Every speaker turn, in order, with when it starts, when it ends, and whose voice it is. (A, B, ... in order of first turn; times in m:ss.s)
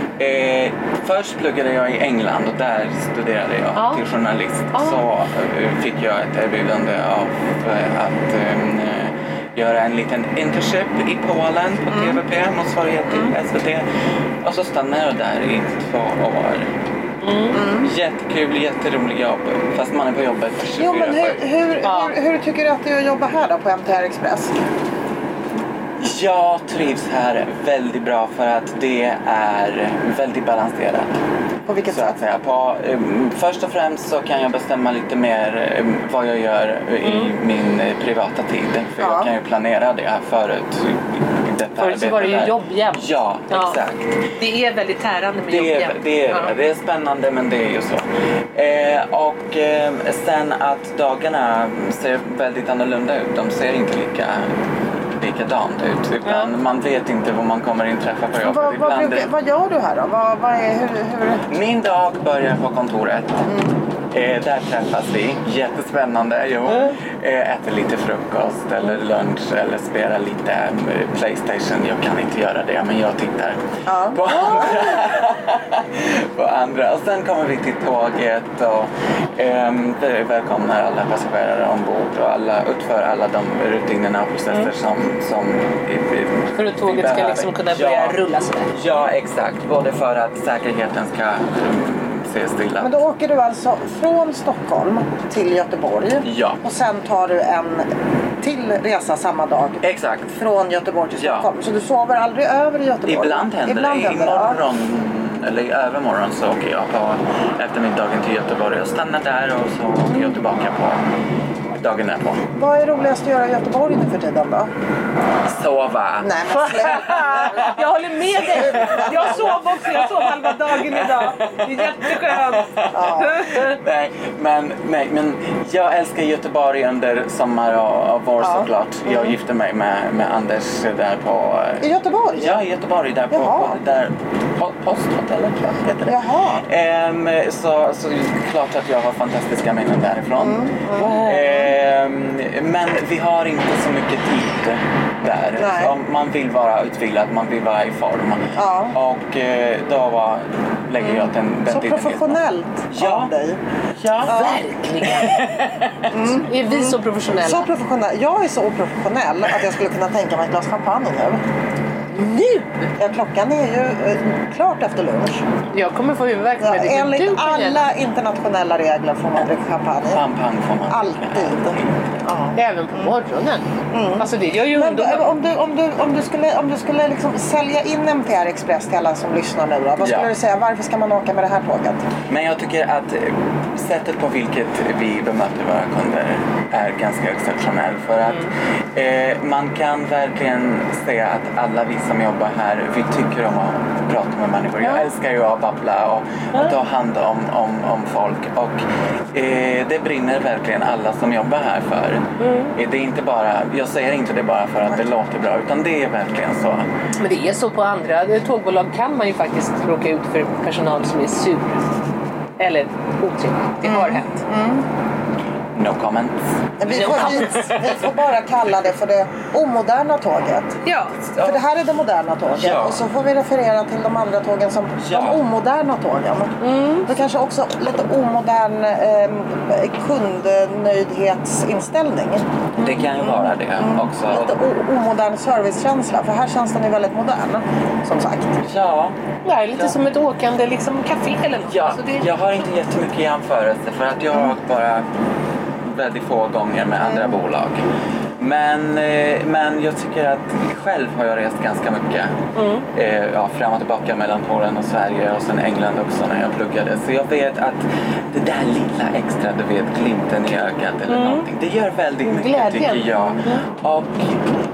0:00.2-0:13.9 A
0:03.8-0:04.0 B
0:04.7-0:05.0 B
0:11.9-0:12.2 C
0:13.1-0:13.3 C
0:14.4-0:16.7 A
0:17.2-0:17.6 B
0:17.5-0:17.9 C
0:17.6-0:21.4 A
0:20.8-0:24.6 C
0:21.8-0:22.2 B
0:26.0-0:31.1 A
0:31.7-0:32.2 C
0:31.9-0:44.3 A
0:37.0-0:37.3 B
0:39.0-0:39.3 C
0:41.8-0:43.8 B
0:44.4-0:46.5 B
0:45.5-0:54.6 A
0:55.2-0:59.3 A
0:56.2-0:56.5 B
0:58.4-1:01.5 C
1:01.5-1:03.4 A
1:03.4-1:03.8 C
1:04.1-1:28.2 A
1:13.9-1:14.8 C
1:14.3-1:14.9 B
1:26.6-1:28.7 B
1:28.7-1:33.0 A
1:32.8-1:37.9 C
1:36.2-1:36.6 A
1:38.4-1:39.8 C
1:39.8-1:40.4 A
1:40.4-1:44.6 C
1:41.2-1:41.5 A
1:43.0-1:51.0 A
1:51.8-1:52.5 A
1:52.5-1:54.7 C
1:55.5-1:57.8 A
1:56.2-1:57.8 C
1:56.5-2:03.8 B
1:58.4-2:32.4 A
2:02.9-2:03.4 C
2:08.4-2:09.4 C
2:11.8-2:12.6 C
2:13.3-2:13.8 C
2:16.0-2:16.6 C
2:20.4-2:21.7 C
2:25.6-2:26.0 C
2:28.6-2:29.0 C
2:31.0-2:33.6 C
2:32.9-2:33.3 A
2:34.0-2:36.1 A
2:34.2-2:34.6 C
2:34.3-2:35.5 B
2:36.1-2:41.4 C
2:36.4-2:37.7 B
2:42.1-2:42.9 B
2:43.0-2:45.4 C
2:45.7-2:47.9 B
2:46.6-2:50.2 C
2:50.1-2:52.0 A
2:50.9-2:53.2 C
2:52.6-2:55.3 B
2:53.9-3:02.1 C
3:00.0-3:00.3 A
3:02.3-3:26.9 A
3:08.3-3:08.5 B
3:14.8-3:15.1 B
3:22.4-3:22.8 B
3:27.2-3:31.8 B
3:32.6-3:34.4 B
3:33.8-3:34.9 C
3:35.8-3:38.0 A
3:36.8-3:40.8 C
3:36.9-3:37.8 B
3:40.8-3:41.2 B
3:41.2-3:41.7 A
3:41.4-3:58.6 C
3:42.5-3:43.0 A
3:45.0-3:45.4 A
3:46.6-3:47.1 B
3:52.8-3:54.6 A
3:58.6-3:59.2 A
3:59.4-4:02.3 B
4:01.7-4:05.1 A
4:05.8-4:07.8 A
4:07.0-4:07.4 C
4:08.4-4:12.4 A
4:12.5-4:12.9 B
4:12.9-4:24.4 A
4:21.1-4:21.5 B
4:22.2-4:23.6 B